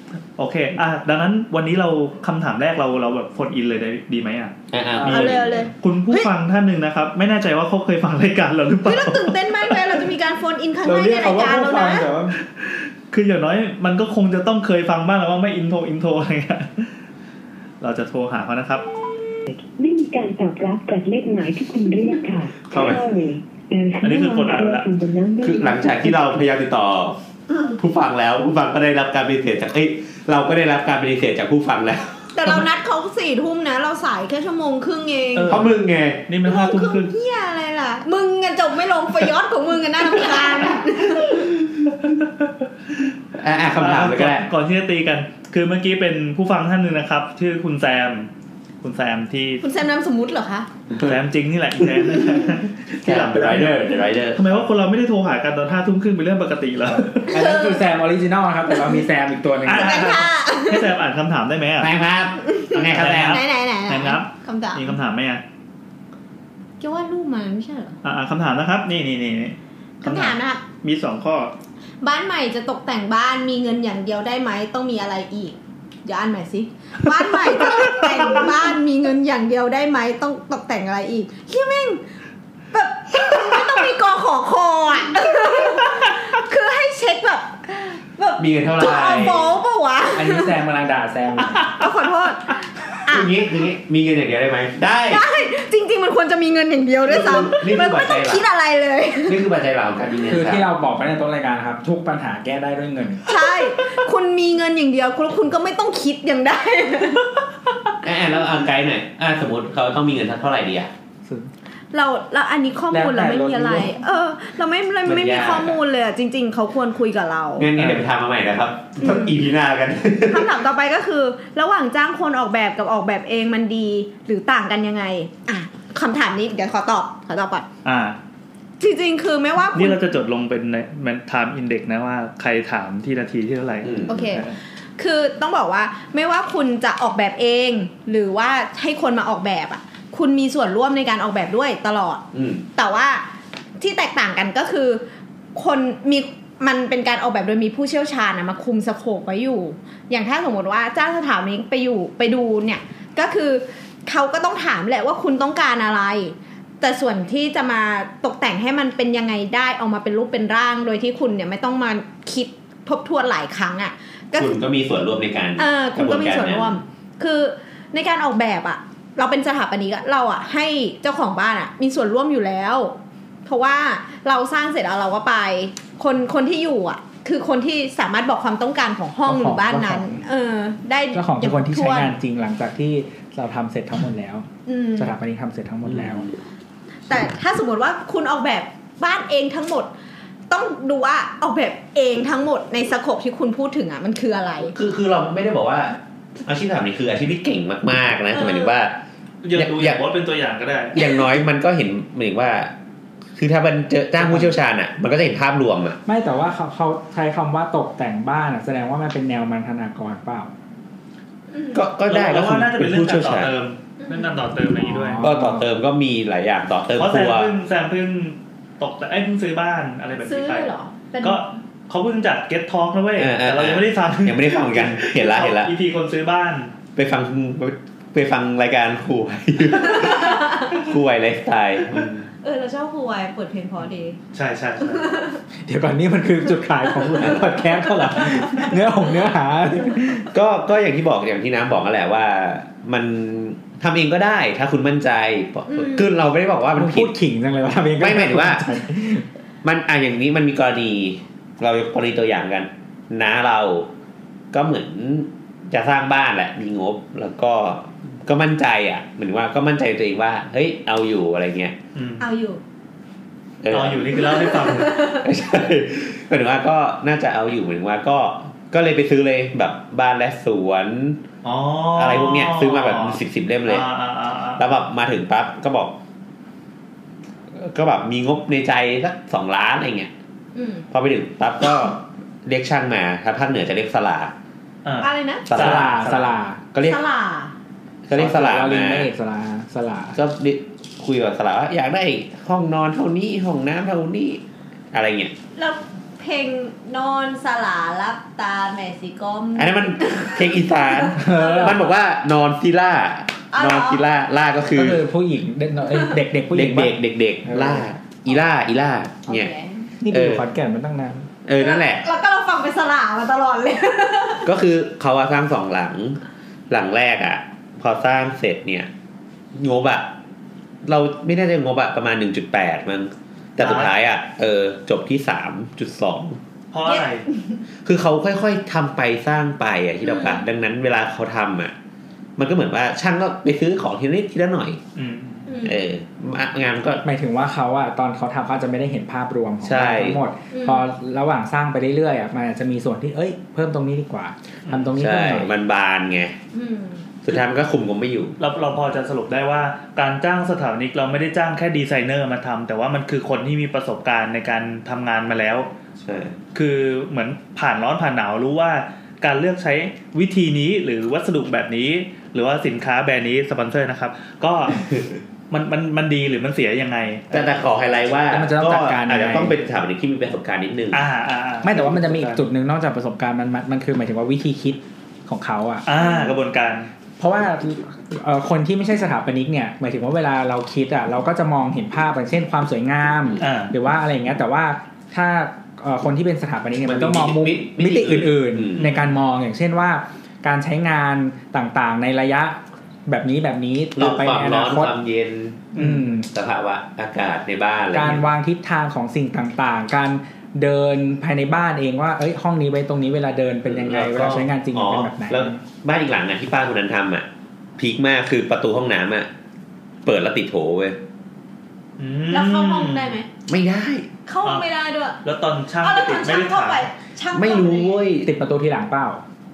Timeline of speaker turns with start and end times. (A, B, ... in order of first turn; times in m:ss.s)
0:00.4-0:10.0 A
0:04.7-0:05.7 B
0:05.1-0:06.3 C
0:08.8-0:12.1 C
0:10.8-0:12.4 D
0:12.6-0:16.9 A
0:17.8-0:18.8 A
0:19.5-0:26.3 E
0:22.7-0:23.0 B
0:24.0-0:24.9 A
0:25.4-0:27.2 B
0:27.8-0:32.2 B
0:32.3-0:35.7 C
0:35.3-0:35.7 A
0:35.5-0:36.2 B
0:36.3-0:37.1 A
0:36.4-0:41.5 C
0:42.0-0:42.5 A
0:43.4-0:44.5 B
0:43.8-0:48.3 A
0:48.8-0:49.6 A
0:49.6-0:50.7 C
0:50.9-0:51.2 B
0:51.0-0:57.3 A
0:53.0-0:54.6 B
0:57.3-1:00.0 D
0:57.3-0:57.8 C
0:59.7-1:01.9 A
0:59.7-1:00.9 C
1:01.8-1:03.4 B
1:02.5-1:02.8 C
1:02.7-1:05.4 A
1:03.3-1:04.9 C
1:06.8-1:08.0 C
1:08.0-1:11.5 A
1:10.0-1:10.6 C
1:12.0-1:22.0 C
1:17.8-1:18.5 A
1:22.7-1:30.6 C
1:28.4-1:29.6 B
1:30.1-1:31.8 D
1:31.6-1:33.3 C
1:33.1-1:35.2 B
1:35.1-1:39.4 C
1:37.1-1:38.4 B
1:39.3-1:40.7 B
1:40.3-1:43.3 D
1:43.3-1:47.4 C
1:48.0-1:50.9 B
1:51.9-1:57.7 C
1:52.9-1:53.9 D
1:55.0-1:55.8 B
1:57.6-2:00.6 B
1:57.8-1:58.1 A
1:59.0-1:59.3 C
2:00.3-2:07.7 C
2:07.8-2:08.2 A
2:08.8-2:10.0 C
2:09.7-2:14.6 A
2:13.8-2:14.4 B
2:14.1-2:23.2 C
2:22.3-2:22.6 B
2:23.8-2:25.0 C
2:25.6-2:44.5 C
2:44.3-2:46.8 B
2:45.6-2:52.9 C
2:53.4-3:02.1 C
2:59.2-3:00.2 D
3:01.1-3:06.3 D
3:04.7-3:05.1 C
3:05.8-3:06.3 B
3:07.1-3:09.9 C
3:10.5-3:14.8 C
3:14.7-3:19.0 B
3:18.3-3:18.7 C
3:19.4-3:21.2 A
3:19.5-3:20.0 B
3:20.9-3:22.7 B
3:23.4-3:26.0 B
3:24.2-3:24.5 D
3:26.1-3:30.5 D
3:31.5-3:31.8 C
3:31.7-3:33.5 B
3:32.1-3:35.2 A
3:34.0-3:34.4 C
3:34.8-3:35.7 D
3:35.2-3:37.5 B
3:37.0-3:40.7 A
3:40.2-3:41.4 C
3:41.2-3:46.7 A
3:43.2-3:45.7 B
3:47.0-3:52.2 B
3:49.9-3:50.7 C
3:51.9-3:52.2 A
3:52.4-3:54.2 C
3:54.3-3:55.2 A
3:54.9-3:55.4 C
3:55.6-4:00.3 D
3:57.2-3:57.5 B
3:58.0-3:58.7 C
4:00.3-4:07.2 B
4:05.7-4:06.1 C
4:06.7-4:09.2 D
4:08.0-4:08.7 B
4:09.6-4:13.9 B
4:14.5-4:21.8 B
4:22.0-4:22.3 A
4:22.2-4:22.6 C
4:23.6-4:31.2 B
4:23.7-4:25.0 A
4:24.4-4:25.3 C
4:31.4-4:34.6 A
4:32.0-4:33.9 B
4:34.6-4:36.0 B
4:37.5-4:40.1 B
4:40.6-4:40.9 C
4:40.9-4:44.3 B
4:44.8-4:46.3 A
4:45.0-4:45.5 C
4:45.5-4:46.0 B
4:45.5-4:46.6 D
4:46.7-4:47.0 B
4:46.8-4:47.5 C
4:48.1-4:49.1 B
4:48.1-4:50.2 D
4:50.1-4:55.3 B
4:55.6-5:01.8 C
4:59.6-5:05.0 B
5:01.2-5:01.8 D
5:03.5-5:04.0 C
5:04.7-5:07.9 D
5:06.5-5:09.5 B
5:09.3-5:09.9 C
5:10.0-5:11.3 D
5:10.1-5:10.4 B
5:11.4-5:12.1 B
5:11.6-5:14.5 C
5:14.4-5:18.9 B
5:19.6-5:20.1 B
5:20.8-5:26.4 B
5:23.6-5:23.9 A
5:26.7-5:27.2 A
5:26.9-5:27.6 C
5:27.8-5:31.7 B
5:30.0-5:30.4 C
5:32.4-5:34.8 B
5:35.0-5:35.5 A
5:35.5-5:35.8 C
5:35.6-5:37.0 B
5:37.0-5:45.5 D
5:39.6-5:40.2 B
5:40.5-5:40.8 C
5:44.7-5:44.9 A
5:45.0-5:46.4 B
5:46.5-5:47.1 C
5:47.2-5:48.4 B
5:48.4-5:55.7 A
5:56.0-5:56.4 B
5:56.5-6:04.9 A
6:05.5-6:07.5 A
6:07.3-6:11.0 B
6:08.3-6:09.6 D
6:10.9-6:12.4 A
6:11.6-6:15.9 D
6:15.9-6:16.9 A
6:16.0-6:16.4 C
6:17.2-6:34.9 D
6:23.4-6:23.7 A
6:26.8-6:28.9 B
6:28.8-6:29.2 A
6:34.0-6:38.2 B
6:35.8-6:36.3 D
6:35.8-6:36.0 A
6:37.9-6:45.6 D
6:43.7-6:47.3 B
6:47.8-6:49.3 B
6:50.0-6:51.0 B
6:52.0-6:53.2 A
6:52.3-6:53.3 C
6:53.5-6:54.1 B
6:54.3-6:55.2 C
6:55.2-6:56.9 A
6:55.8-6:58.0 C
6:57.3-6:58.3 B
6:58.2-6:59.2 D